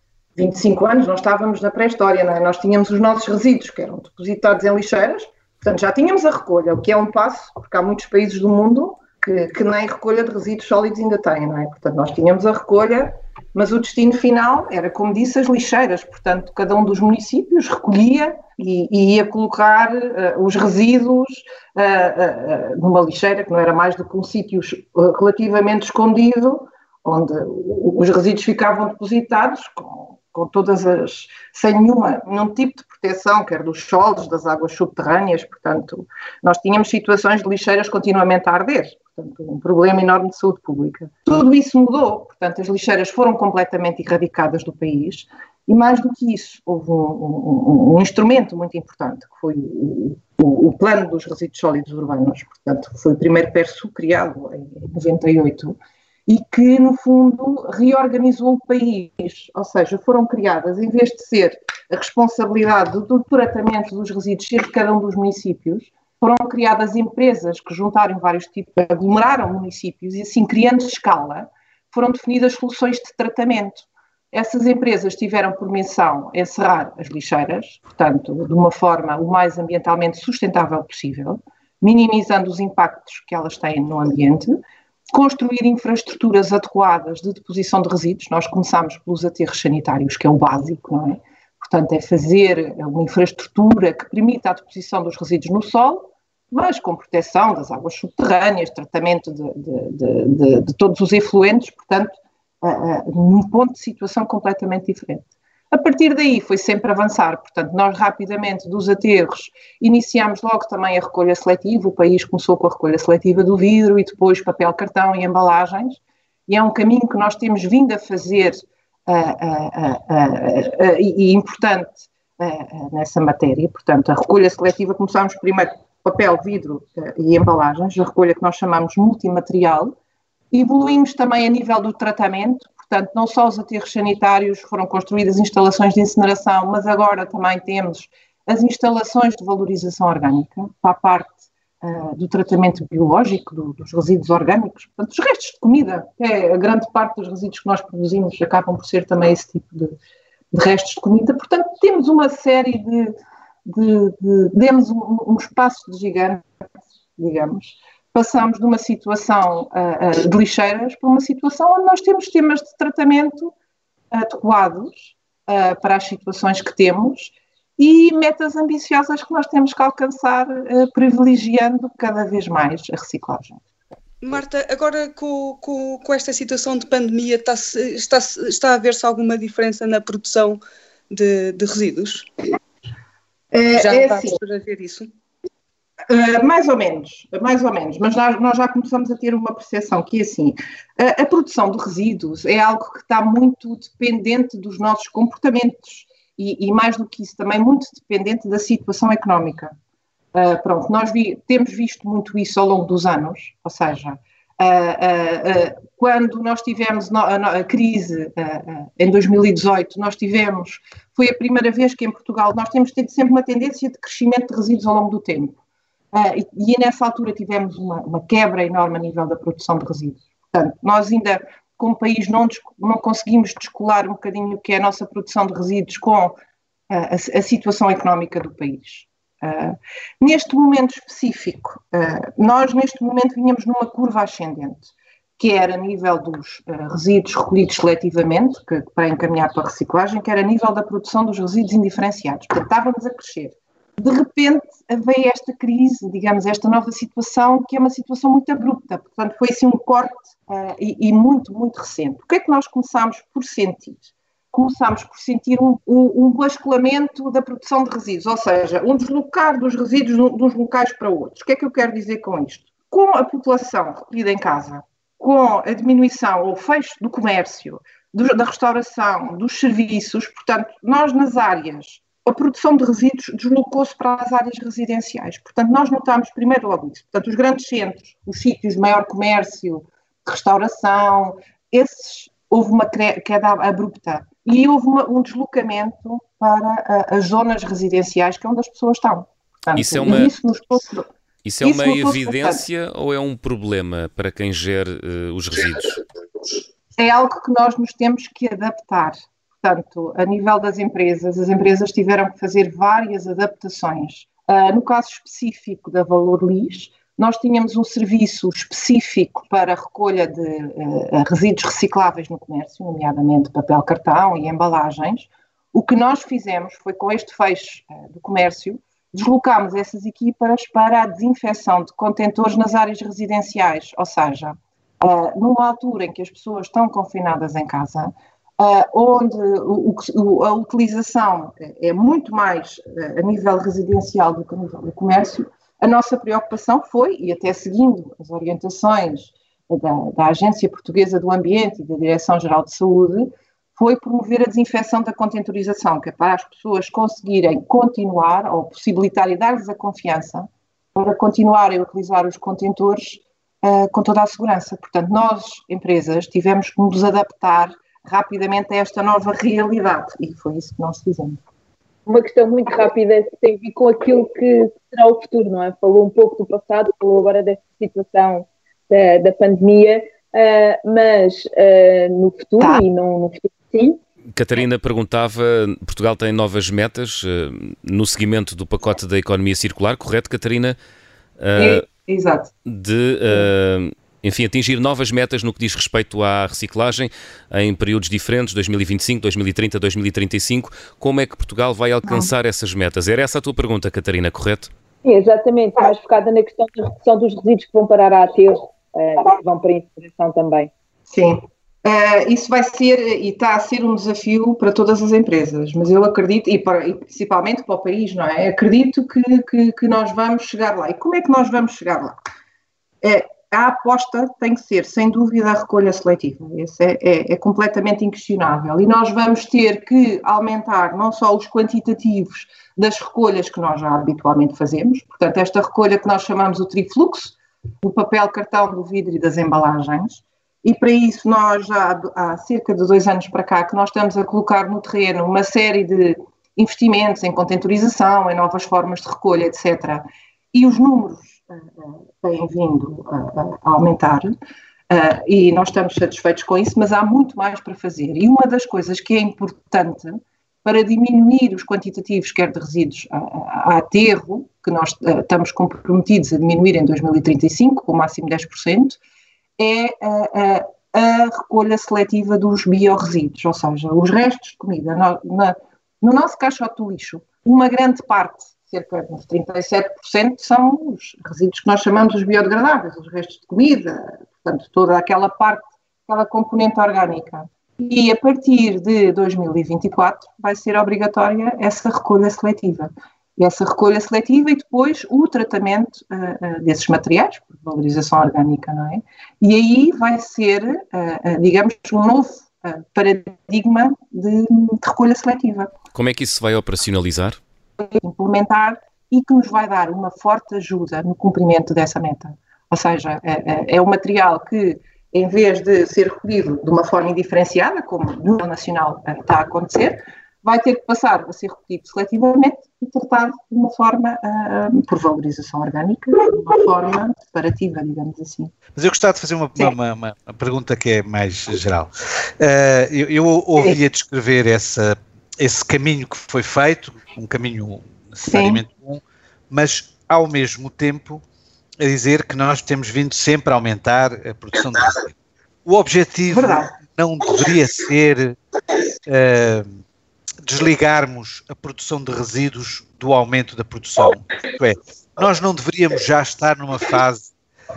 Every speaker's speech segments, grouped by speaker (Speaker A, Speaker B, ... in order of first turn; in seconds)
Speaker A: 0.4-129.9, 130.5-150.0, 150.5-156.5, 157.2-163.5, 164.1-173.6, 183.5-184.4, 186.1-199.8, 200.3-215.6, 216.1-226.4, 226.9-291.1, 291.6-292.6, 297.0-361.4, 381.6-382.5, 401.1-412.2, 413.0-444.4, 444.9-459.0, 459.6-495.7, 497.9-518.5, 528.3-528.6, 536.3-536.7
Speaker B: 174.2-182.3, 183.8-185.1
Speaker C: 289.8-290.3, 291.4-296.0, 374.3-380.8, 381.4-381.8, 382.7-394.7, 495.9-497.4
Speaker D: 362.1-374.0, 395.1-400.7
Speaker E: 518.8-531.2, 531.8-535.1, 535.7-538.4, 539.1-539.7, 540.5-547.3